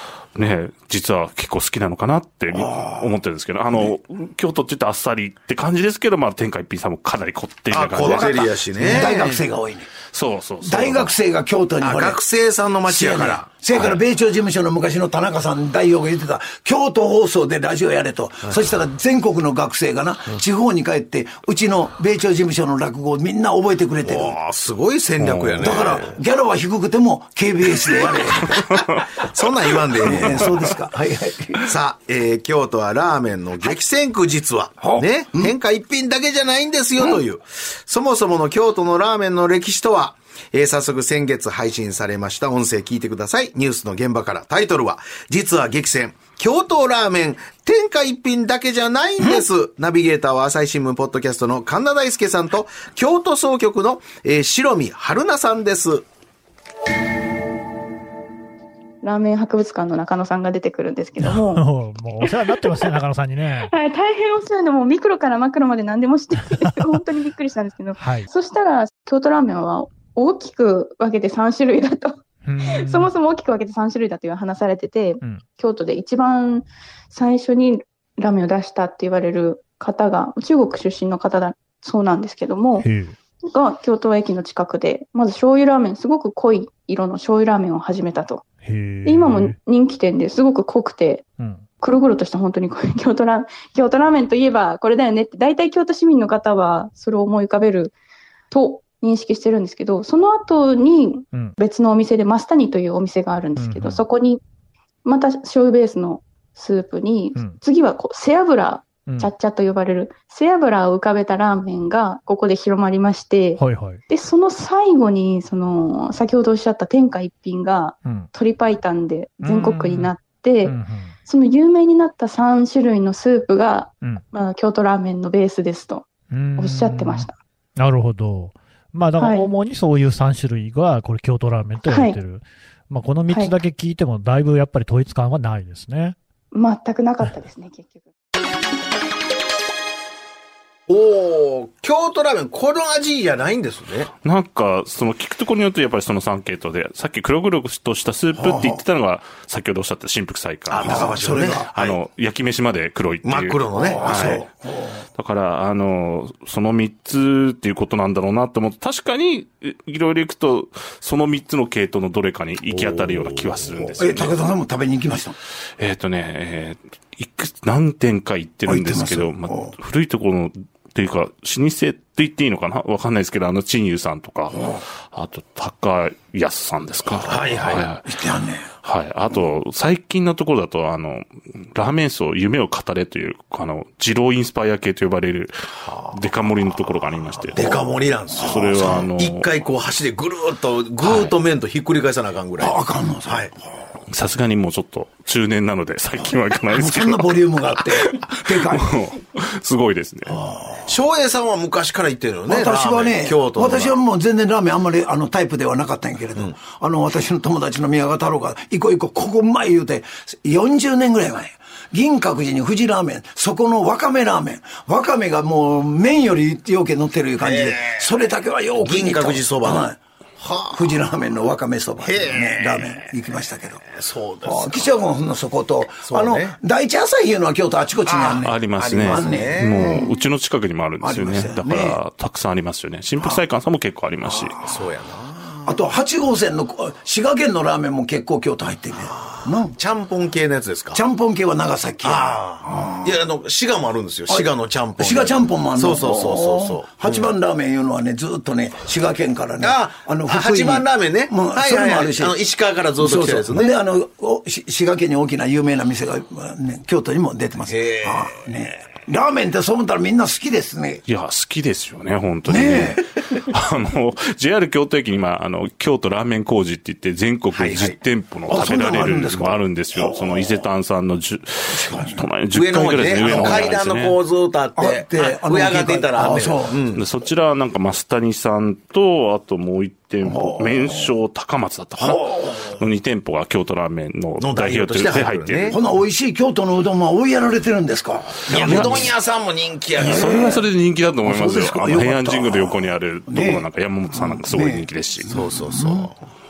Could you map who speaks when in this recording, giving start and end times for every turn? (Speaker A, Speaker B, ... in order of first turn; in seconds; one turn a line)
Speaker A: 0.3-9.1
Speaker B: 2.5-3.1
Speaker C: 7.7-9.4
Speaker B: 8.0-9.9
Speaker A: 10.1-11.2
Speaker B: 10.6-12.2
Speaker C: 11.8-13.5
Speaker B: 12.8-24.4
Speaker A: 13.7-14.0
Speaker C: 24.0-26.0
Speaker A: 25.2-25.9
Speaker B: 25.6-28.5
Speaker A: 28.5-29.2
Speaker C: 29.1-30.7
Speaker B: 29.9-31.6
Speaker A: 30.0-30.5
Speaker C: 31.6-56.0
Speaker B: 34.8-35.5
Speaker D: 59.0-61.6
Speaker E: 61.2-63.7
Speaker D: 62.2-62.9
Speaker D: 63.6-82.9
Speaker E: 68.0-68.3
Speaker E: 72.4-73.1
Speaker E: 82.8-83.1
Speaker D: 83.5-88.4
Speaker E: 88.6-89.5
Speaker D: 89.0-91.3
Speaker E: 91.4-91.6
Speaker D: 91.8-97.9
Speaker D: 98.5-104.4
Speaker E: 103.6-104.0
Speaker D: 105.0-127.3
Speaker E: 109.1-109.3
Speaker E: 113.6-114.0
Speaker E: 118.0-118.3
Speaker E: 119.4-121.1
Speaker E: 126.3-136.2
Speaker D: 129.2-129.5
Speaker D: 131.8-132.2
Speaker D: 133.3-133.5
Speaker D: 136.5-138.1
Speaker C: 140.9-144.1
Speaker A: 144.2-154.4
Speaker B: 148.3-148.8
Speaker C: 150.7-152.0
Speaker B: 150.8-151.7
Speaker C: 153.2-154.4
Speaker B: 153.7-155.0
Speaker A: 155.2-164.4
Speaker C: 162.7-163.9
Speaker B: 163.9-165.3
Speaker A: 165.8-178.1
Speaker B: 168.7-169.7
Speaker B: 174.5-174.8
Speaker C: 177.1-177.9
Speaker B: 178.0-178.7
Speaker A: 178.8-185.5
Speaker A: 186.1-187.6
Speaker C: 187.5-192.8
Speaker B: 187.6-189.0
Speaker A: 188.4-189.5
Speaker A: 191.0-191.3
Speaker B: 192.6-193.6
Speaker C: 193.3-193.5
Speaker A: 194.1-200.4
Speaker B: 196.7-198.9
Speaker B: 200.3-200.8
Speaker C: 200.8-203.9
Speaker B: 202.5-220.0
Speaker C: 217.4-218.1
Speaker C: 218.8-219.9
Speaker C: 220.4-221.0
Speaker B: 220.7-223.8
Speaker C: 222.0-223.0
Speaker C: 223.9-225.0
Speaker B: 224.4-230.1
Speaker C: 226.0-226.6
Speaker C: 228.1-230.1
Speaker A: 228.4-234.6
Speaker B: 231.0-232.0
Speaker B: 234.2-234.5
Speaker C: 234.6-235.7
Speaker B: 235.7-239.8
Speaker C: 239.2-241.0
Speaker B: 240.9-243.1
Speaker C: 242.0-247.3
Speaker B: 244.3-252.3
Speaker C: 249.6-253.7
Speaker B: 253.0-261.0
Speaker C: 257.7-258.4
Speaker A: 261.1-274.2
Speaker B: 262.4-263.0
Speaker C: 267.5-267.9
Speaker B: 268.5-270.5
Speaker B: 271.7-272.2
Speaker C: 272.5-277.0
Speaker B: 273.3-273.6
Speaker B: 274.8-276.8
Speaker A: 276.9-285.8
Speaker B: 280.2-281.1
Speaker B: 282.0-282.5
Speaker C: 284.4-285.8
Speaker B: 285.7-289.1
Speaker C: 288.5-290.5
Speaker A: 288.5-289.1
Speaker B: 290.0-290.6
Speaker A: 290.0-295.3
Speaker B: 291.2-296.1
Speaker C: 295.3-296.1